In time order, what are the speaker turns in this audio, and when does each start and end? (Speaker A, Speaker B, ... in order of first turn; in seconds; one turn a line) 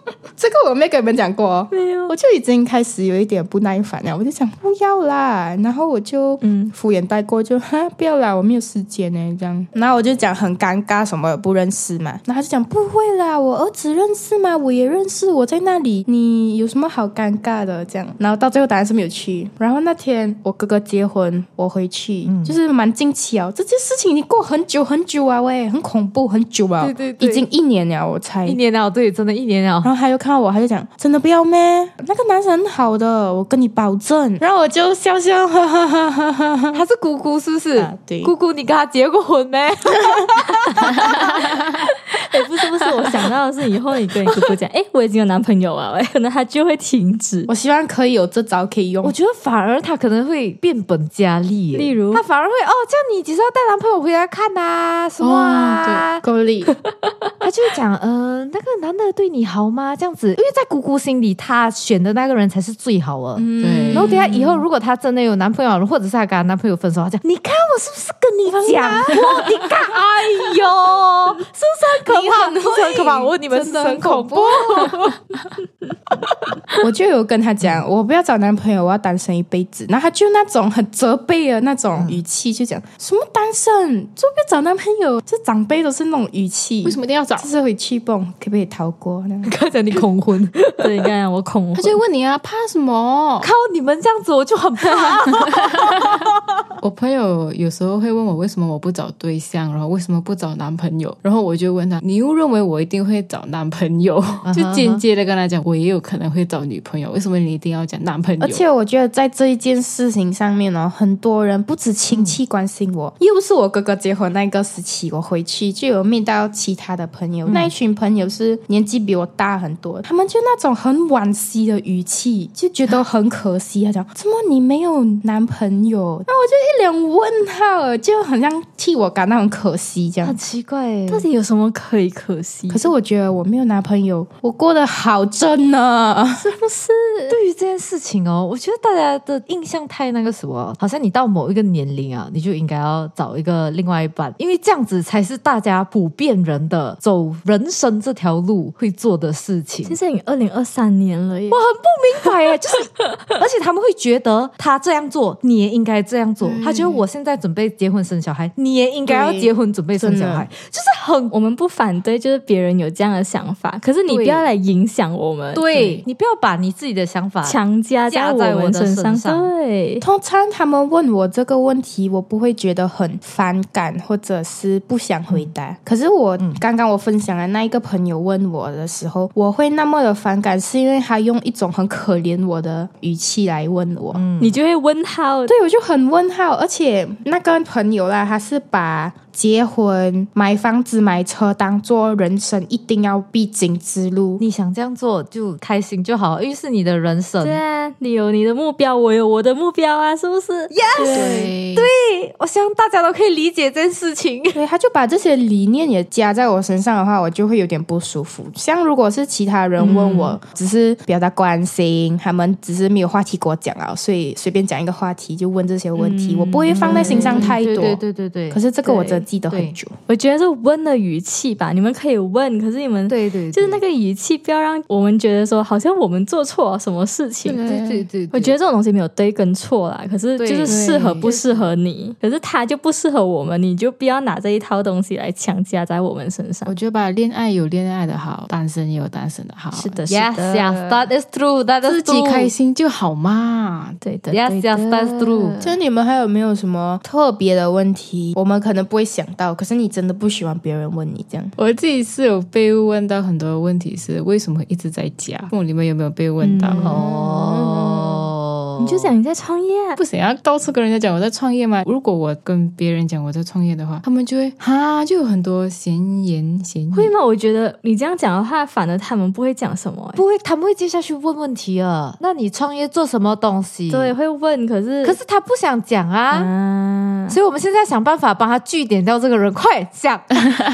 Speaker A: 0.4-28.6
Speaker B: 1.7-2.1
Speaker B: 6.4-6.7
Speaker C: 22.2-22.6
Speaker C: 26.8-27.5
Speaker C: 28.4-29.9
Speaker A: 29.8-36.8
Speaker C: 36.7-41.6
Speaker A: 37.8-38.3
Speaker B: 42.1-47.5
Speaker A: 47.5-49.1
Speaker C: 49.0-56.2
Speaker B: 51.7-52.2
Speaker D: 55.2-56.1
Speaker A: 56.2-56.8
Speaker B: 56.9-57.3
Speaker C: 57.4-75.2
Speaker A: 63.4-64.2
Speaker D: 63.6-64.6
Speaker A: 68.5-69.8
Speaker A: 72.0-75.1
Speaker A: 76.8-89.5
Speaker C: 82.0-82.2
Speaker D: 86.8-87.5
Speaker C: 89.5-90.9
Speaker B: 90.8-92.0
Speaker D: 91.8-93.5
Speaker C: 93.4-96.6
Speaker D: 96.8-108.6
Speaker C: 104.5-105.0
Speaker A: 108.4-130.4
Speaker C: 112.1-112.4
Speaker C: 117.5-117.7
Speaker C: 130.2-131.3
Speaker B: 131.1-132.9
Speaker A: 132.7-136.5
Speaker B: 136.4-137.4
Speaker C: 137.3-150.0
Speaker B: 149.8-151.6
Speaker C: 151.5-161.3
Speaker D: 156.4-157.0
Speaker A: 159.1-160.5
Speaker B: 161.3-166.0
Speaker C: 164.1-164.5
Speaker C: 165.5-169.5
Speaker B: 167.4-170.0
Speaker A: 170.0-184.2
Speaker C: 184.1-184.6
Speaker B: 184.4-185.5
Speaker A: 185.5-194.4
Speaker C: 194.4-197.6
Speaker B: 197.4-200.7
Speaker C: 200.7-204.6
Speaker A: 201.0-201.5
Speaker D: 201.1-201.9
Speaker A: 204.5-219.9
Speaker B: 209.8-210.3
Speaker C: 209.9-210.2
Speaker B: 216.0-217.5
Speaker C: 216.8-218.7
Speaker B: 218.8-219.2
Speaker C: 219.5-219.8
Speaker B: 220.1-227.6
Speaker C: 223.1-223.8
Speaker D: 227.5-228.1
Speaker C: 227.6-228.6
Speaker B: 228.3-236.7
Speaker C: 230.4-231.4
Speaker D: 230.7-231.4
Speaker D: 236.7-240.0
Speaker B: 239.7-241.0
Speaker C: 240.1-242.5
Speaker D: 241.8-244.0
Speaker B: 244.0-245.8
Speaker C: 244.3-245.7
Speaker A: 245.6-251.5
Speaker D: 251.6-257.1
Speaker B: 256.4-258.0
Speaker C: 256.8-259.1
Speaker B: 258.8-260.0
Speaker D: 260.0-267.1
Speaker B: 266.9-270.2
Speaker C: 270.2-274.1
Speaker B: 273.9-275.2
Speaker C: 275.0-276.5
Speaker B: 276.3-277.4
Speaker C: 277.3-280.5